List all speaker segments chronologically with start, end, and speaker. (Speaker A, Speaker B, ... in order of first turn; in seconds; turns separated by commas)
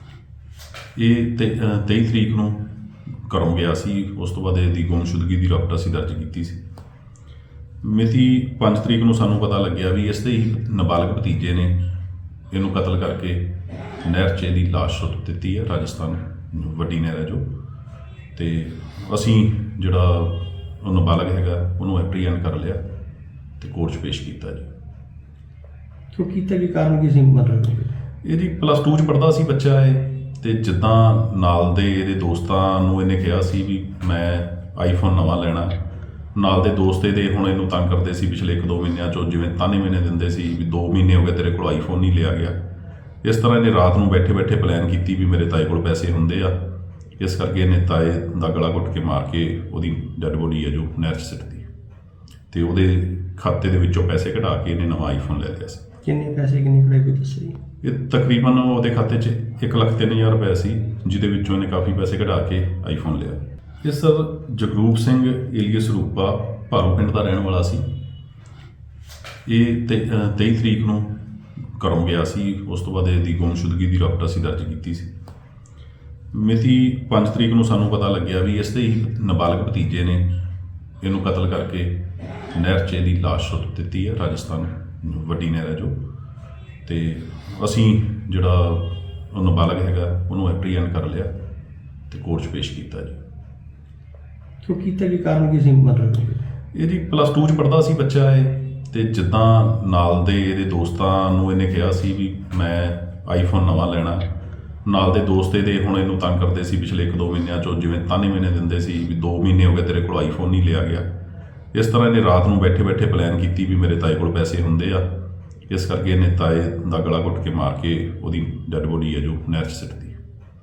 Speaker A: 0.9-2.7, Speaker A: 3.2-6.6, Speaker A: 7.8-11.8, Speaker A: 12.5-17.4, Speaker A: 18.4-22.8, Speaker A: 23.6-24.7, Speaker B: 26.1-27.9, Speaker A: 28.2-35.8, Speaker A: 36.4-42.6, Speaker A: 43.2-46.6, Speaker A: 47.2-51.7, Speaker A: 52.5-55.8, Speaker B: 56.0-57.6, Speaker A: 57.8-67.8, Speaker A: 69.5-75.1, Speaker A: 76.3-80.3, Speaker A: 81.0-86.0, Speaker A: 86.9-91.3, Speaker A: 92.1-93.2, Speaker B: 94.6-96.4, Speaker A: 96.7-104.3, Speaker A: 104.8-111.0, Speaker A: 111.7-115.1, Speaker A: 115.7-120.2